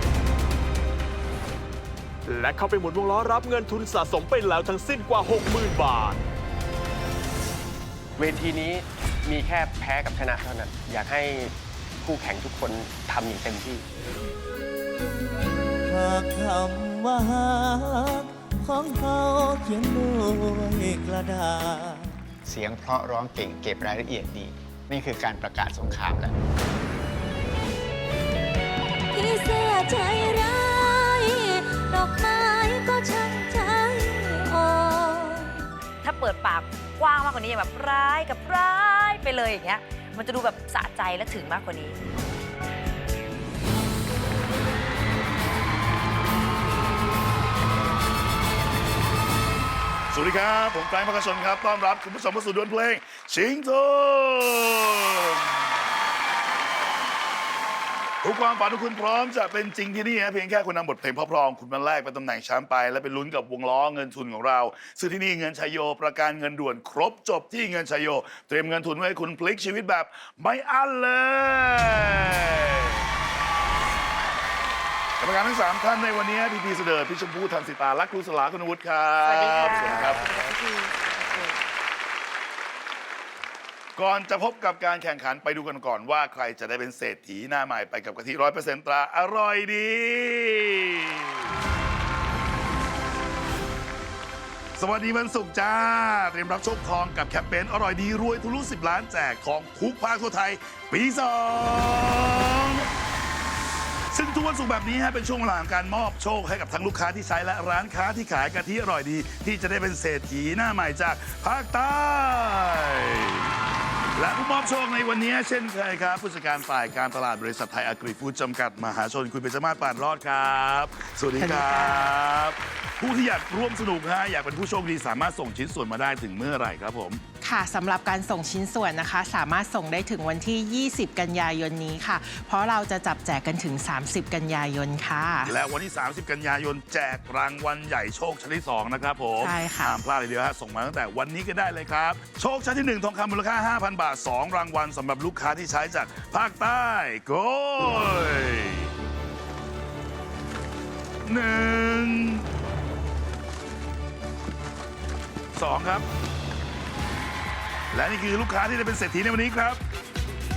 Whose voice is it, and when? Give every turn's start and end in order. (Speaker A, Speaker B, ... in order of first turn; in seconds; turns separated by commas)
Speaker A: 2.3-6.2, Speaker B: 8.2-13.8, Speaker C: 15.9-22.2, Speaker D: 22.5-26.3, Speaker E: 29.1-35.7, Speaker F: 36.0-42.0, Speaker G: 50.1-55.5, Speaker G: 58.2-73.0, Speaker G: 75.2-80.3, Speaker F: 79.2-81.6, Speaker G: 84.0-91.4, Speaker G: 94.8-102.9, Speaker G: 104.1-113.5, Speaker G: 114.2-127.2, Speaker H: 121.4-122.2, Speaker H: 127.4-135.6, Speaker G: 135.5-148.9, Speaker H: 139.4-140.0, Speaker G: 151.2-152.4, Speaker G: 155.6-156.1, Speaker G: 157.9-159.8